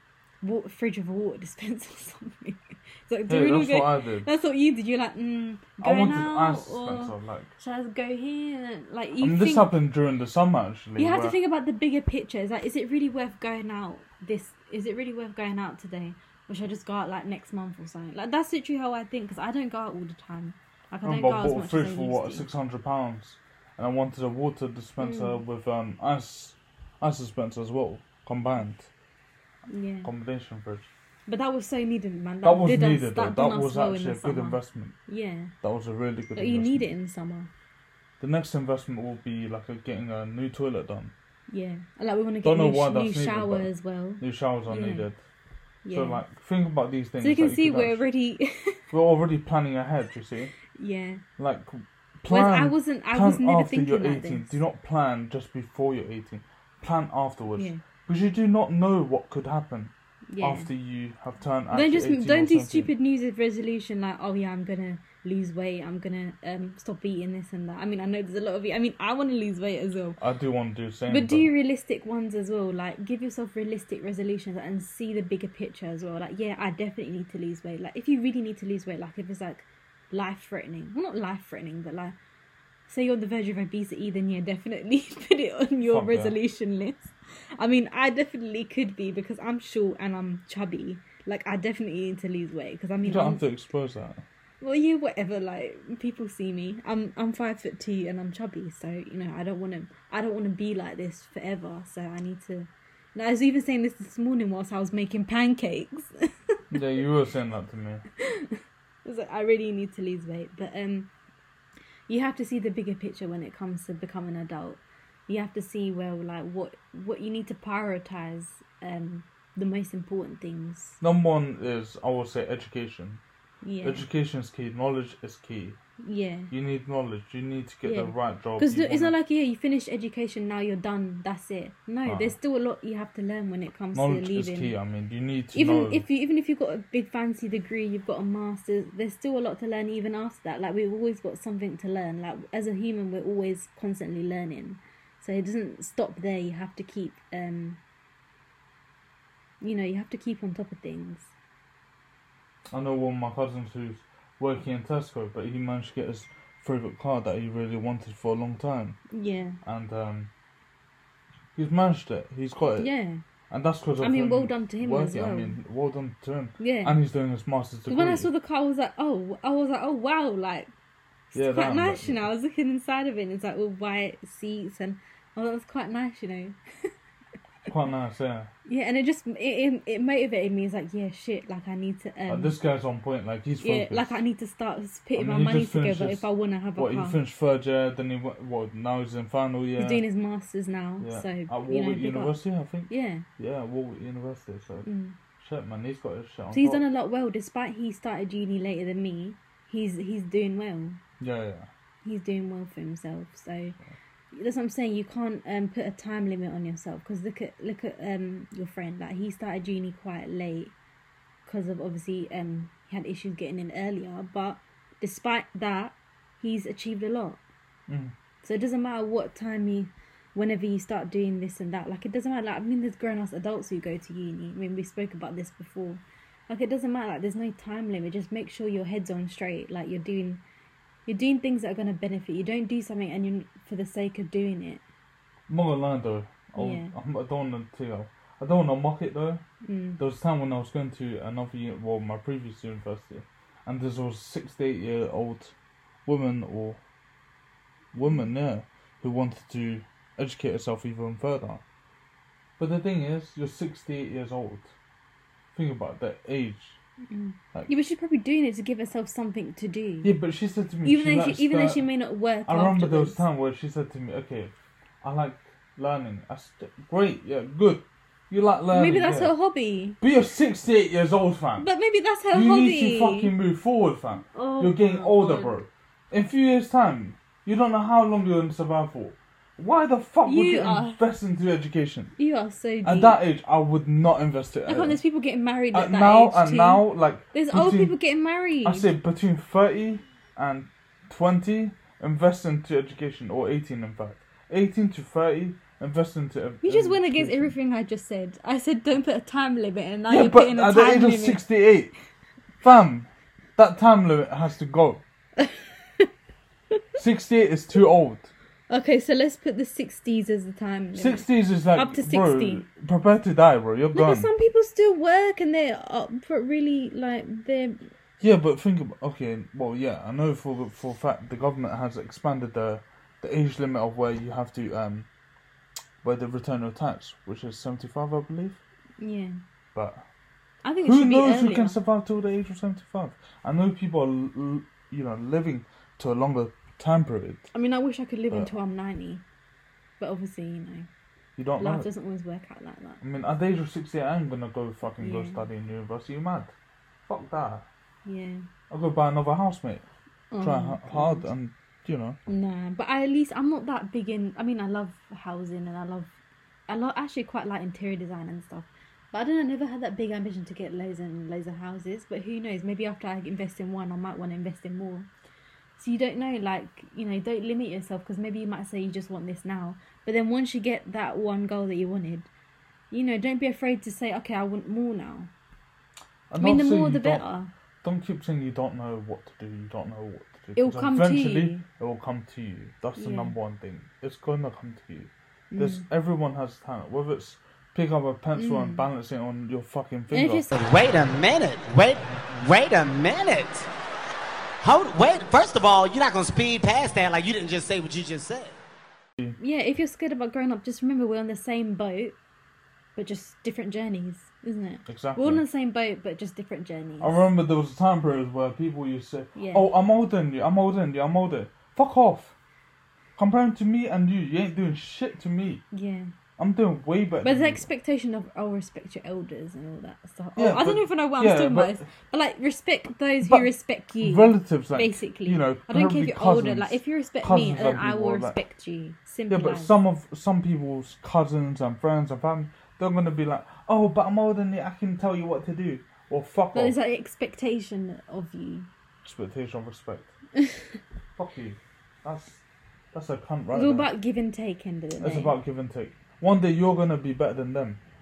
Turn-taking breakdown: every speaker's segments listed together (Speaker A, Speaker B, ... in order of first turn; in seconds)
Speaker A: 0.4-9.7, 11.0-22.5, 25.0-25.4, 29.7-30.1, 31.3-35.5, 36.4-37.5, 41.5-45.1, 45.8-46.3, 47.2-48.8, 50.7-51.2, 52.3-54.6, 57.6-57.8, 60.3-60.7, 61.7-70.2, 71.1-82.2, 82.9-93.5, 94.6-106.6, 108.2-111.1, 112.1-121.0, 123.6-124.1, 126.0-126.5, 127.8-134.8, 135.5-147.8, 149.6-151.3, 159.1-159.6, 162.8-163.2, 164.0-165.6, 166.6-167.0, 167.9-170.7, 171.3-176.9, 178.7-182.6, 183.6-187.2, 189.8-193.3, 194.8-195.2, 196.5-201.0, 202.0-203.8, 204.3-210.7, 211.4-217.4, 218.4-230.4, 231.1-234.8, 236.6-236.9, 239.6-240.0, 257.1-260.1, 260.8-263.2, 268.7-270.0, 271.6-273.4, 274.3-275.6, 280.2-281.0, 282.2-283.2, 284.7-288.9, 296.6-301.5, 305.4-306.1, 308.7-312.6, 313.9-317.9, 329.0-329.4, 330.6-331.8, 337.5-339.2, 340.0-340.9, 341.6-343.0, 345.0-345.4, 348.1-348.5, 350.3-351.3, 352.3-356.1, 356.7-365.1, 365.8-372.3, 372.9-375.3, 376.4-377.5, 380.6-381.7, 383.0-383.4, 385.5-385.9, 388.4-388.9, 390.1-390.6, 399.4-402.2, 403.0-407.2, 409.4-409.7, 415.7-416.1, 417.2-429.8, 436.5-438.7, 440.4-440.8, 443.5-445.4
Speaker B: 3.3-4.3, 5.8-7.5, 9.2-11.4, 21.0-28.9, 30.0-30.9, 32.4-35.0, 35.6-36.9, 38.2-41.1, 42.4-43.7, 44.2-45.2, 45.9-48.0, 48.9-50.5, 51.4-62.9, 70.2-71.5, 85.9-86.4, 93.0-94.2, 106.7-108.0, 121.0-123.2, 123.8-125.8, 126.5-129.1, 132.1-132.3, 133.9-136.1, 152.7-159.0, 159.6-160.3, 161.6-162.9, 163.5-168.3, 171.3-172.3, 177.7-178.5, 182.3-184.2, 185.2-190.0, 191.0-194.9, 195.4-196.8, 201.2-201.7, 217.9-218.1, 235.5-239.4, 240.0-245.5, 246.1-246.8, 247.9-251.6, 252.6-254.7, 255.6-256.8, 260.0-261.9, 262.5-269.3, 270.0-271.7, 272.3-282.1, 282.8-285.0, 285.7-288.0, 288.6-297.6, 300.1-301.9, 302.6-305.0, 307.0-308.3, 310.9-314.3, 318.2-325.1, 326.0-328.6, 329.7-330.1, 330.8-337.5, 341.4-341.9, 343.0-346.5, 347.1-347.7, 348.7-349.9, 350.4-352.2, 376.3-377.2, 377.8-390.5, 404.9-405.4, 407.0-412.4, 413.2-415.6, 416.4-417.6, 420.4-421.9, 423.2-423.5, 424.0-428.4, 429.3-436.8, 439.0-440.1, 441.2-442.4, 442.9-443.9, 445.0-447.8
Speaker C: 390.5-393.7, 394.6-398.6